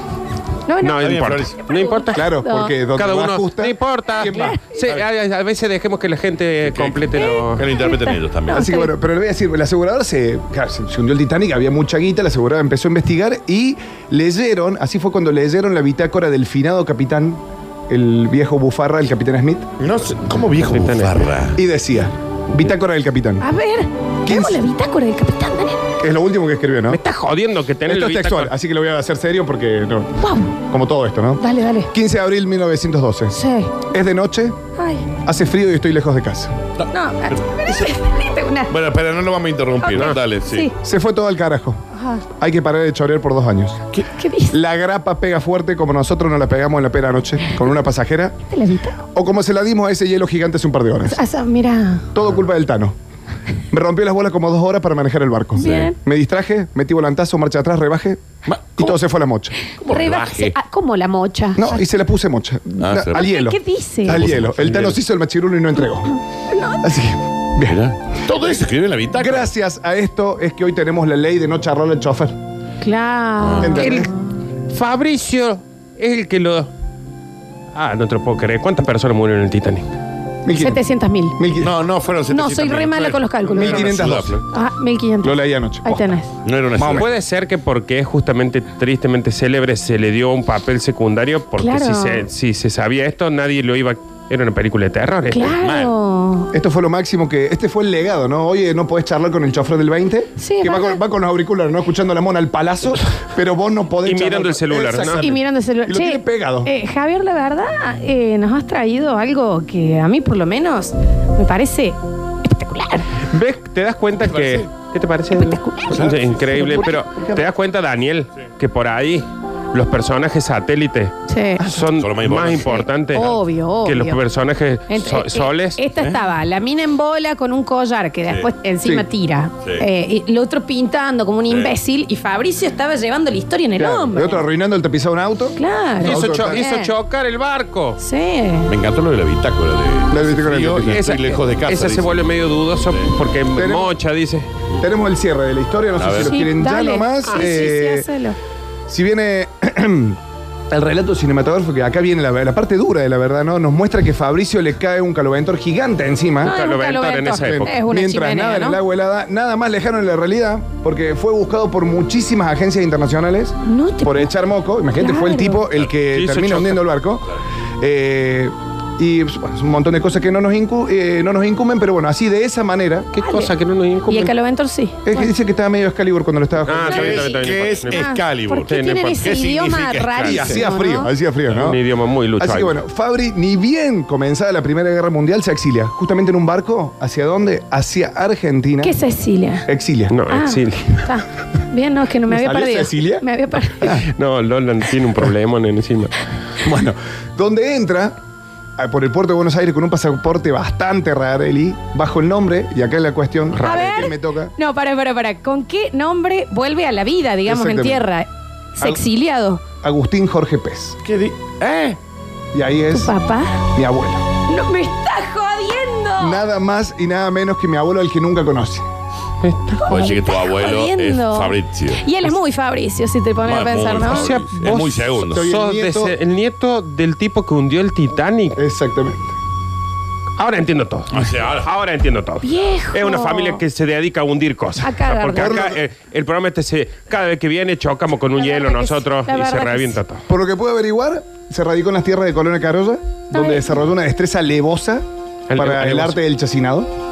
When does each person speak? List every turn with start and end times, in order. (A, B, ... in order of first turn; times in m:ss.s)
0:00.6-0:01.0 A
0:00.8-0:02.2 B
0:01.0-0:01.5 C
0:01.6-0:02.7 A
0:02.1-0:04.6 D
0:03.0-0:07.6 B
0:04.2-0:04.6 A
0:04.8-0:05.0 C
0:06.6-0:08.7 C
0:07.1-0:08.9 A
0:08.5-0:19.7 D
0:19.8-0:21.6 C
0:20.6-0:21.2 B
0:21.5-0:23.4 D
0:23.4-0:25.8 A
0:24.2-0:24.7 D
0:26.0-0:27.0 D
0:26.9-0:28.5 B
0:27.8-0:34.6 D
0:30.2-0:30.5 A
0:31.4-0:31.9 A
0:33.3-0:33.8 A
0:34.8-0:35.1 A
0:35.2-0:36.6 D
0:36.9-0:38.8 A
0:38.7-0:40.7 C
0:39.8-0:40.7 A
0:39.9-0:40.2 B
0:40.8-0:41.8 D
0:41.9-0:42.2 A
0:42.4-0:43.8 D
0:44.0-0:44.6 A
0:44.5-0:48.3 D
0:48.5-0:49.0 A
0:49.1-0:51.2 D
0:51.0-0:52.1 A
0:52.1-0:52.9 D
0:53.7-0:58.2 D
0:55.6-0:56.0 A
0:55.6-0:55.9 C
0:58.5-0:58.9 C
0:58.8-0:59.5 D
0:59.6-1:01.8 A
0:59.9-1:00.5 C
1:01.6-1:06.2 D
1:02.8-1:03.2 C
1:03.1-1:04.3 A
1:04.1-1:05.0 C
1:06.5-1:06.9 A
1:06.8-1:07.8 D
1:07.6-1:09.5 C
1:09.2-1:12.4 D
1:12.8-1:14.1 A
1:13.4-1:13.8 C
1:13.6-1:14.1 D
1:13.8-1:14.1 B
1:14.7-1:16.7 B
1:17.7-1:19.8 B
1:20.4-1:20.8 D
1:20.5-1:21.4 A
1:21.4-1:21.7 D
1:21.6-1:24.4 C
1:22.3-1:26.3 A
1:23.5-1:24.4 D
1:25.2-1:26.2 D
1:26.4-1:27.1 C
1:26.7-1:27.1 D
1:27.0-1:35.5 B
1:31.6-1:32.3 A
1:35.3-1:36.5 A
1:35.6-1:35.9 C
1:36.5-1:46.7 D
1:40.4-1:41.0 A
1:44.0-1:45.3 B
1:45.1-1:53.1 A
1:53.3-2:05.8 B
1:54.2-1:54.6 C
1:55.3-1:56.0 A
1:55.9-1:57.5 D
1:55.9-1:56.6 C
2:01.3-2:01.7 A
2:01.9-2:02.8 C
2:02.6-2:04.2 A
2:04.9-2:14.4 A
2:06.0-2:06.2 C
2:09.6-2:09.9 C
2:11.5-2:11.7 C
2:13.8-2:16.6 D
2:15.6-2:16.9 A
2:16.0-2:18.0 B
2:18.0-2:18.7 A
2:18.7-2:22.3 C
2:20.1-2:21.0 D
2:20.9-2:24.5 B
2:22.9-2:23.1 C
2:23.6-2:23.9 D
2:24.8-2:28.1 D
2:26.0-2:26.4 C
2:26.2-2:28.4 A
2:27.2-2:27.7 B
2:28.9-2:30.2 D
2:30.7-2:36.5 D
2:36.4-2:38.8 A
2:36.4-2:37.7 B
2:37.4-2:53.1 D
2:43.6-2:44.3 A
2:45.0-2:45.6 A
2:45.9-2:46.8 B
2:53.1-2:54.3 B
2:53.2-2:53.5 A
2:54.1-2:55.3 A
2:55.0-2:57.3 D
2:56.6-2:58.1 B
2:56.9-3:00.6 C
2:56.9-3:01.1 A
2:58.7-2:59.3 B
3:00.1-3:00.5 B
3:00.4-3:01.8 D
3:01.5-3:02.8 B
3:02.4-3:08.9 D
3:08.8-3:09.7 A
3:09.7-3:10.2 D
3:10.1-3:11.0 B
3:10.3-3:14.0 A
3:12.3-3:13.2 D
3:13.8-3:14.1 D
3:14.1-3:16.2 B
3:16.6-3:18.1 D
3:18.8-3:24.5 D
3:23.5-3:23.9 B
3:23.6-3:29.6 A
3:27.5-3:28.0 D
3:29.8-3:31.0 D
3:31.0-3:32.0 C
3:32.5-3:33.1 D
3:32.9-3:33.6 A
3:33.7-3:34.2 D
3:34.5-3:36.4 A
3:36.2-3:38.8 D
3:39.4-3:39.8 B
3:39.8-3:44.3 A
3:39.9-3:42.1 C
3:43.4-3:45.4 C
3:44.0-3:48.6 B
3:44.6-3:46.1 D
3:48.6-3:49.3 D
3:50.4-4:00.2 B
3:51.1-3:51.7 C
3:52.4-3:53.6 A
3:54.8-3:55.6 A
3:55.4-3:55.8 D
3:58.4-4:00.0 A
4:00.3-4:05.0 D
4:03.3-4:03.8 A
4:05.5-4:06.2 B
4:05.5-4:06.9 D